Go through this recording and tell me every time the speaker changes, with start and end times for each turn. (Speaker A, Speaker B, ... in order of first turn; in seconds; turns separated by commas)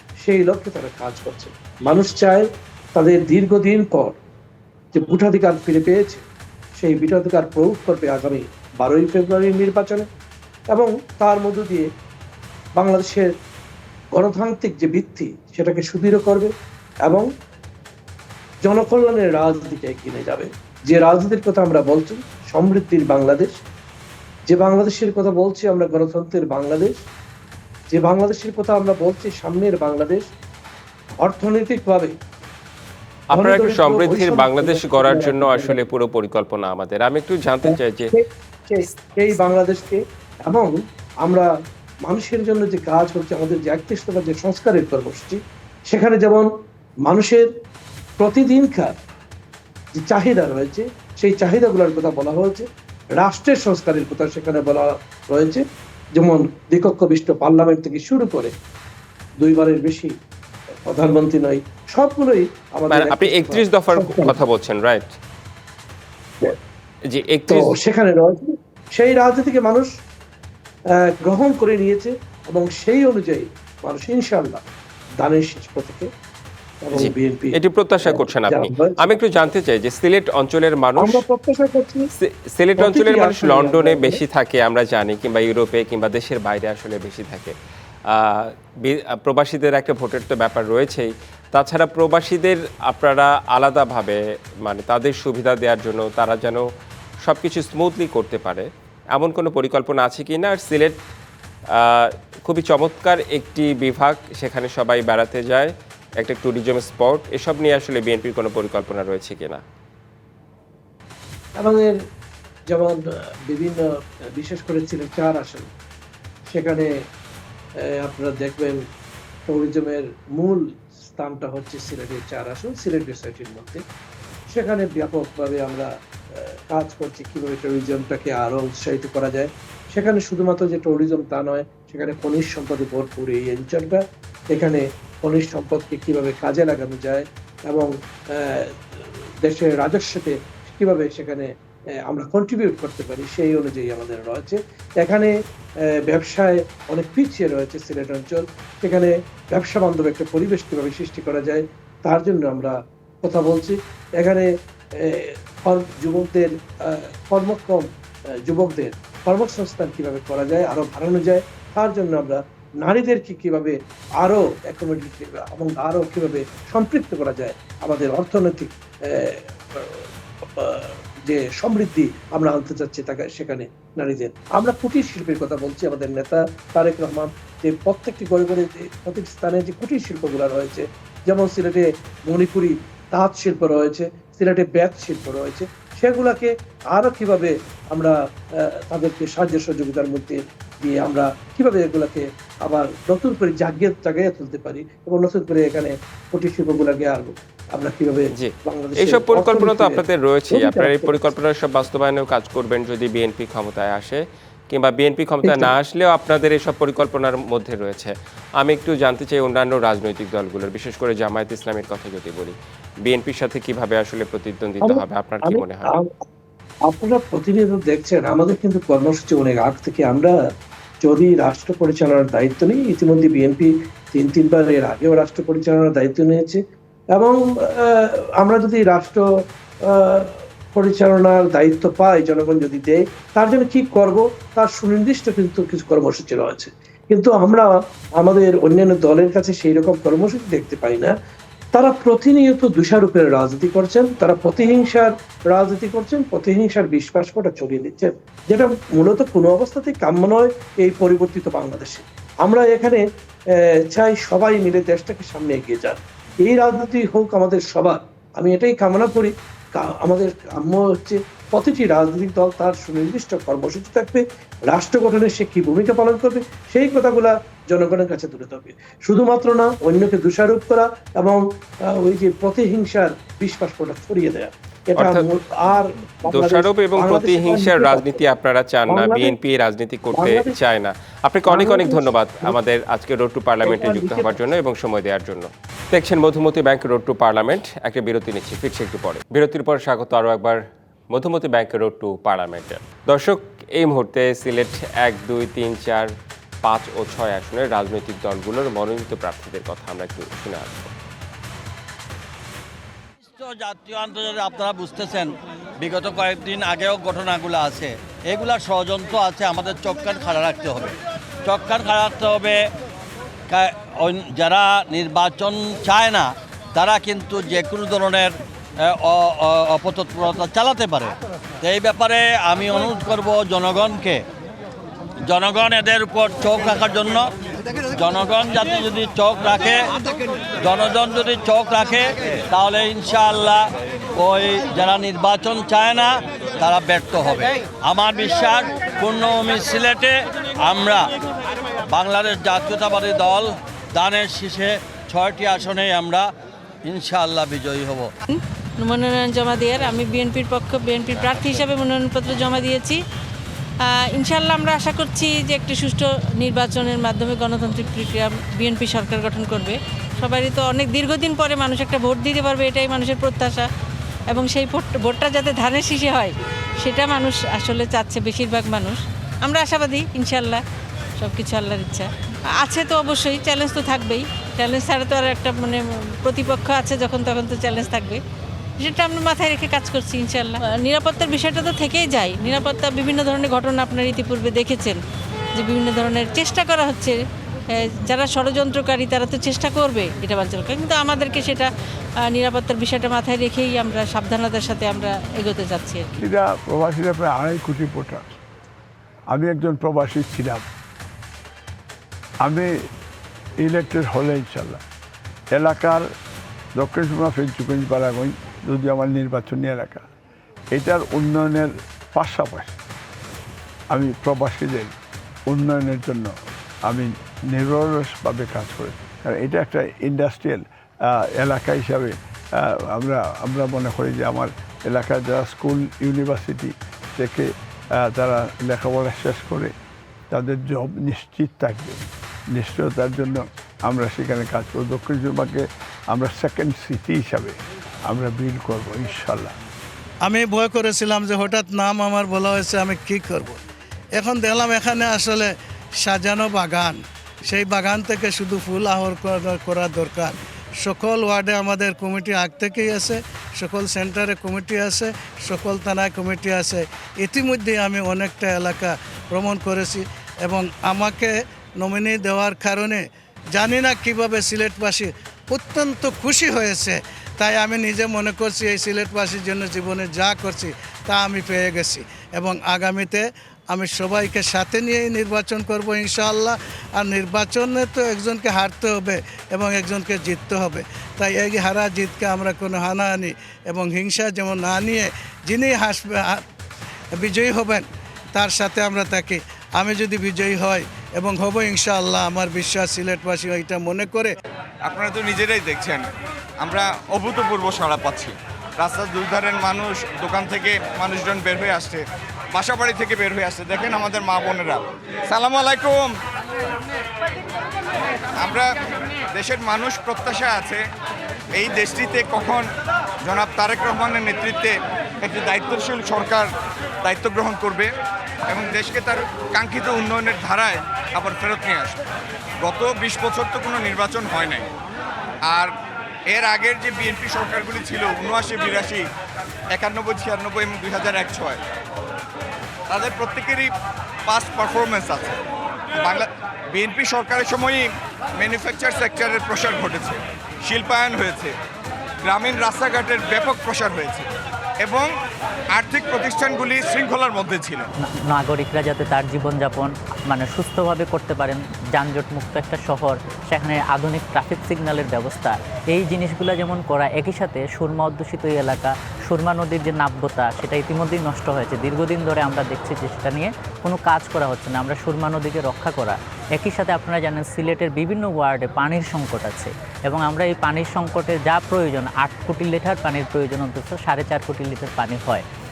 Speaker A: 0.2-4.2, Speaker A: 4.9-6.2, Speaker A: 6.8-10.1, Speaker A: 10.7-11.9, Speaker A: 12.8-13.3, Speaker A: 14.1-16.5, Speaker A: 18.6-23.6, Speaker A: 24.5-27.0, Speaker A: 27.9-30.3, Speaker A: 31.2-32.2, Speaker B: 33.3-38.1, Speaker A: 33.3-35.8, Speaker A: 37.7-41.5, Speaker A: 42.0-46.5, Speaker A: 47.0-47.5, Speaker A: 48.2-48.9, Speaker A: 49.9-55.6, Speaker A: 56.1-58.5, Speaker A: 59.4-60.1, Speaker A: 60.8-64.3, Speaker B: 62.9-65.1, Speaker B: 67.1-67.7, Speaker A: 67.5-69.9, Speaker A: 70.9-74.6, Speaker A: 75.2-76.1, Speaker A: 76.8-79.1, Speaker B: 76.9-81.2, Speaker A: 81.0-82.1, Speaker B: 82.2-87.5, Speaker A: 82.8-84.2, Speaker B: 88.1-96.7, Speaker B: 97.2-101.0, Speaker B: 101.7-109.6, Speaker A: 111.6-112.0, Speaker A: 112.7-113.8, Speaker A: 114.4-115.7, Speaker A: 116.5-116.9, Speaker A: 118.0-118.8, Speaker A: 119.5-123.8, Speaker A: 124.5-141.5, Speaker A: 142.1-157.9, Speaker A: 158.4-201.2, Speaker B: 198.3-215.9, Speaker A: 205.4-205.7, Speaker A: 214.8-216.1, Speaker A: 216.9-220.3, Speaker A: 221.0-226.6, Speaker A: 227.1-229.2, Speaker A: 229.8-241.1, Speaker A: 241.7-253.0, Speaker A: 253.5-278.2, Speaker B: 275.0-275.3, Speaker B: 276.3-296.1, Speaker A: 278.9-279.3, Speaker A: 280.1-280.5, Speaker A: 281.5-282.5, Speaker A: 283.6-284.4, Speaker B: 296.6-300.9, Speaker C: 303.2-310.9, Speaker C: 311.4-312.6, Speaker C: 313.5-318.3, Speaker C: 318.8-324.2, Speaker C: 325.3-327.3, Speaker C: 327.9-329.8, Speaker C: 330.6-333.6, Speaker C: 334.2-341.0, Speaker C: 341.9-346.3, Speaker C: 346.9-348.1, Speaker D: 348.8-353.0, Speaker D: 354.0-363.7, Speaker D: 364.3-370.6, Speaker D: 371.2-378.2, Speaker D: 378.8-385.0, Speaker D: 385.6-387.2, Speaker D: 387.8-391.7, Speaker D: 392.3-396.1, Speaker E: 396.2-398.2, Speaker E: 399.3-400.6, Speaker E: 402.4-402.7, Speaker E: 403.6-404.8, Speaker E: 405.5-406.1, Speaker E: 406.8-410.1, Speaker E: 410.7-412.7, Speaker E: 413.9-414.9, Speaker E: 415.5-416.3, Speaker E: 416.9-429.7, Speaker E: 430.3-432.0, Speaker E: 432.5-439.5, Speaker F: 440.2-443.6, Speaker F: 444.2-463.0, Speaker F: 463.5-486.4, Speaker F: 487.2-494.3, Speaker G: 494.9-496.0, Speaker G: 496.6-506.1, Speaker G: 508.4-508.7, Speaker G: 509.3-510.8, Speaker G: 511.5-512.7, Speaker G: 513.2-516.5, Speaker G: 517.0-517.9, Speaker G: 518.5-522.0, Speaker G: 522.6-524.7, Speaker G: 526.3-529.0, Speaker G: 529.7-531.6, Speaker G: 532.9-533.7, Speaker G: 534.3-535.4, Speaker G: 536.0-541.5, Speaker G: 542.2-544.3, Speaker G: 544.8-545.1, Speaker G: 545.7-547.9, Speaker H: 548.0-575.4